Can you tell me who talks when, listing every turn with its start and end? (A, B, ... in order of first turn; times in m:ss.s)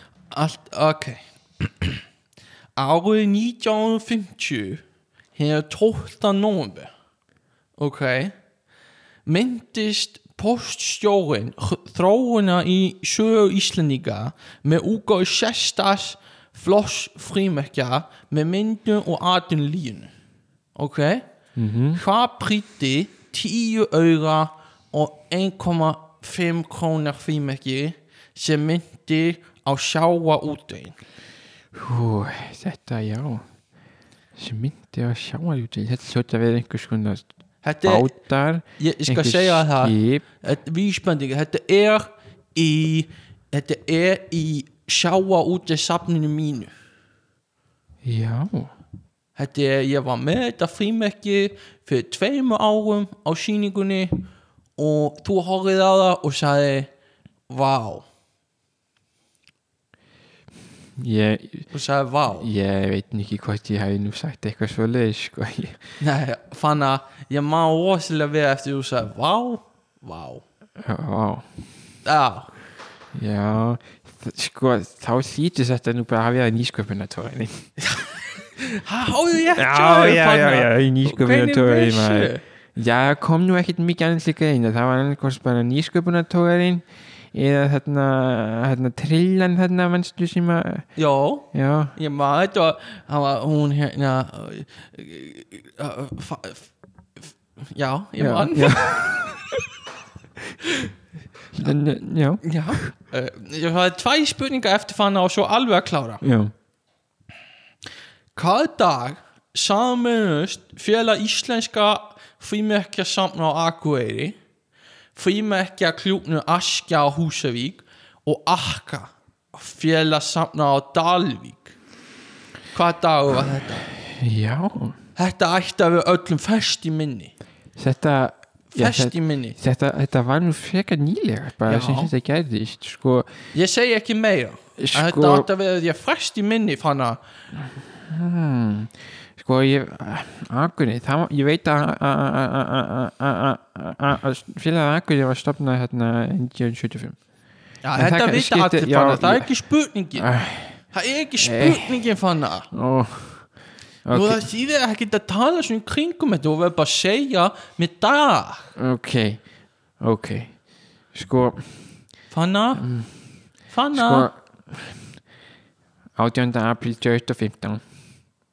0:00.3-0:02.0 A
0:02.8-0:04.8 A
0:05.4-0:06.9 A
0:07.8-0:08.4 A
0:09.3-0:20.1 A
0:20.8-0:21.3 A
0:21.6-0:22.0 B
0:21.9-0:31.0 A
0:31.7-0:33.5 B
0:34.4-0:37.3 B
0:37.6-0:38.1 A
0:37.8-0:40.3 B
0:38.8-0:46.7 A
0:48.0-0:48.7 B
0:49.4-0:56.9 A
0:57.5-0:58.1 A
1:01.0-1:01.7 B
1:01.7-1:02.5 A
1:02.4-1:05.8 B
1:06.0-1:10.4 A
1:10.8-1:11.5 B
1:12.0-1:12.5 A
1:13.1-1:17.7 B
1:17.8-1:22.4 A
1:19.5-1:30.9 B
1:31.0-1:36.7 A
1:31.5-1:32.0 B
1:37.3-1:39.0 A
1:38.2-1:39.5 B
1:41.5-1:42.8 B
1:42.4-1:46.2 A
1:46.2-1:46.5 B
1:48.4-1:54.4 A
1:55.2-2:01.8 A
2:02.7-2:03.9 A
2:04.0-2:05.0 B
2:05.2-2:07.3 A
2:07.8-2:13.3 B
2:08.7-2:09.6 A
2:11.6-2:12.1 A
2:13.5-2:17.2 A
2:14.8-2:15.5 B
2:17.6-2:27.2 B
2:27.8-2:30.3 A
2:28.0-2:29.5 B
2:30.2-2:30.8 B
2:30.9-2:32.7 A
2:31.4-2:32.0 B
2:32.7-2:33.5 B
2:34.1-2:34.4 B
2:34.1-2:38.7 A
2:38.8-2:39.4 B
2:40.0-2:40.6 B
2:41.1-2:41.9 B
2:42.3-2:42.9 A
2:42.8-2:43.2 B
2:43.7-2:44.3 A
2:43.9-2:45.0 B
2:46.2-2:47.8 B